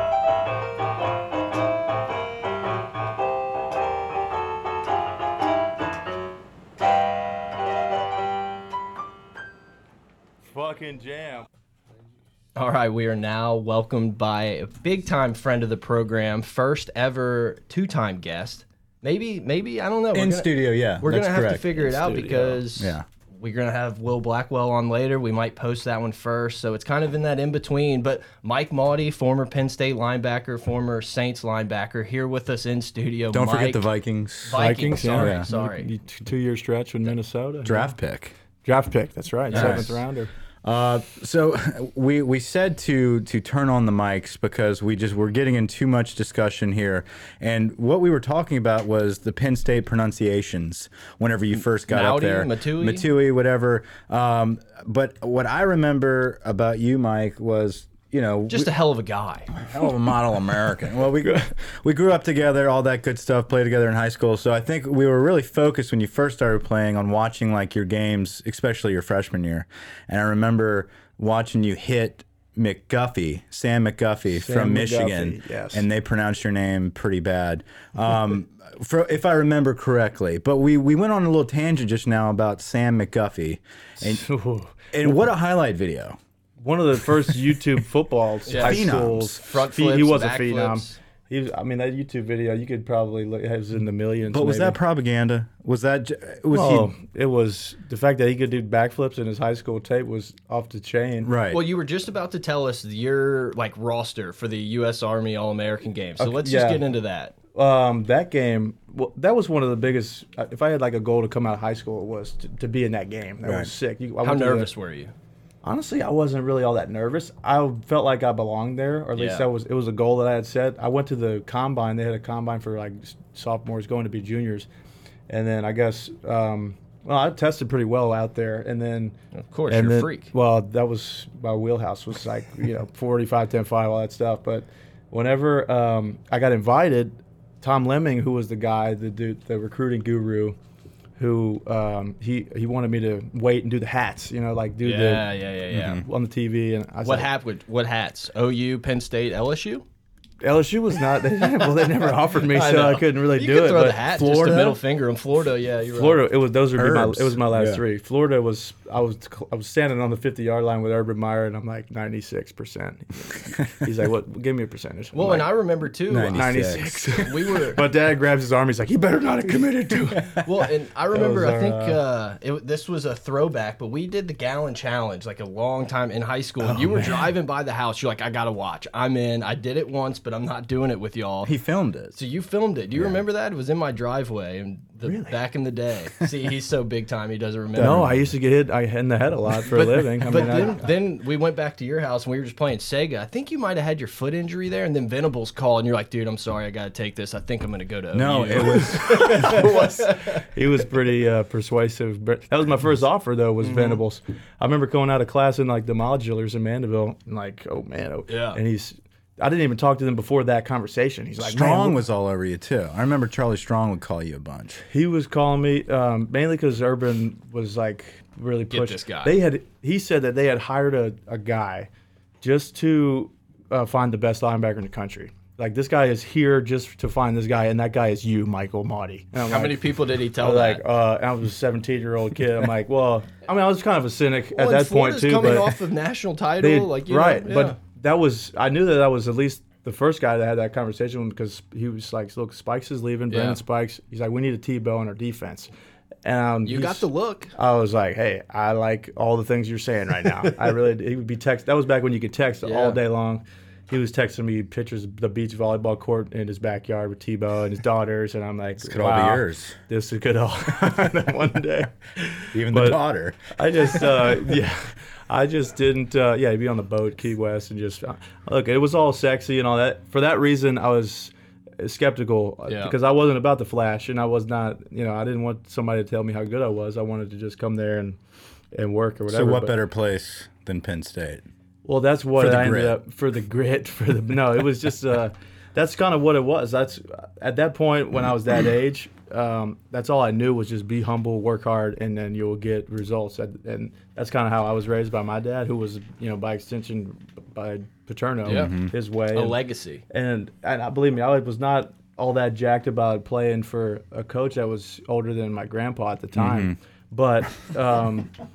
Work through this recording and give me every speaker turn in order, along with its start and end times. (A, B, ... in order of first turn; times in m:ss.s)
0:10.5-0:11.5 A
0:12.6-0:33.9 B
0:20.1-0:21.7 C
0:21.7-0:22.6 A
0:22.8-0:23.0 C
0:33.3-0:35.5 C
0:34.4-0:35.9 B
0:34.5-0:38.0 A
0:37.6-0:38.4 C
0:38.6-0:40.3 A
0:39.5-0:39.9 B
0:39.5-0:40.0 C
0:40.6-0:58.7 C
0:51.9-0:53.1 B
0:58.5-0:59.5 B
0:59.5-1:24.2 C
1:14.3-1:15.8 A
1:24.0-1:25.2 A
1:24.9-1:26.2 C
1:26.6-1:34.8 A
1:28.5-1:31.0 B
1:28.6-1:29.4 C
1:34.3-1:36.9 C
1:36.5-1:41.3 A
1:41.2-1:41.6 C
1:41.5-1:47.4 B
1:46.2-1:46.8 A
1:47.5-1:54.7 A
1:53.4-1:53.7 C
1:54.2-1:55.1 B
1:55.6-2:04.7 A
1:59.2-1:59.5 B
2:05.3-2:09.2 A
2:09.4-2:10.3 B
2:09.7-2:20.6 A
2:21.2-2:25.3 A
2:24.8-2:26.0 B
2:25.7-2:26.0 C
2:25.8-2:27.3 A
2:27.0-2:29.8 B
2:30.4-2:34.0 A
2:32.4-2:36.3 B
2:34.0-2:34.8 C
2:36.0-2:45.5 A
2:36.8-2:37.8 C
2:45.1-2:47.8 B
2:46.1-2:47.1 C
2:46.3-2:50.5 A
2:50.3-3:01.5 B
2:51.1-2:52.0 A
2:56.6-2:57.3 A
3:01.4-3:02.2 C
3:02.1-3:08.1 B
3:02.9-3:03.2 C
3:05.0-3:05.4 A
3:07.8-3:08.2 C
3:07.8-3:10.8 A
3:09.7-3:20.4 B
3:18.1-3:19.9 C
3:18.8-3:32.0 A
3:23.6-3:24.0 B
3:28.3-3:28.6 B
3:31.4-3:34.8 C
3:34.8-3:41.9 A
3:38.7-3:39.4 B
3:42.4-3:49.8 A
3:49.5-3:50.8 B
3:50.4-3:55.7 A
3:54.5-3:57.8 B
3:56.6-4:05.7 A
4:03.3-4:03.6 B
4:06.2-4:38.2 A
4:06.6-4:07.5 B
4:12.6-4:13.0 B
4:18.8-4:19.8 C
4:22.5-4:24.4 C
4:32.7-4:32.9 B
4:38.7-4:39.8 A
4:39.3-4:41.4 C
4:41.8-4:59.6 A
4:42.4-4:43.0 C
4:58.5-4:58.8 B
4:58.5-4:58.9 C
4:59.3-5:00.0 B
5:00.1-5:08.3 A
5:06.4-5:06.8 C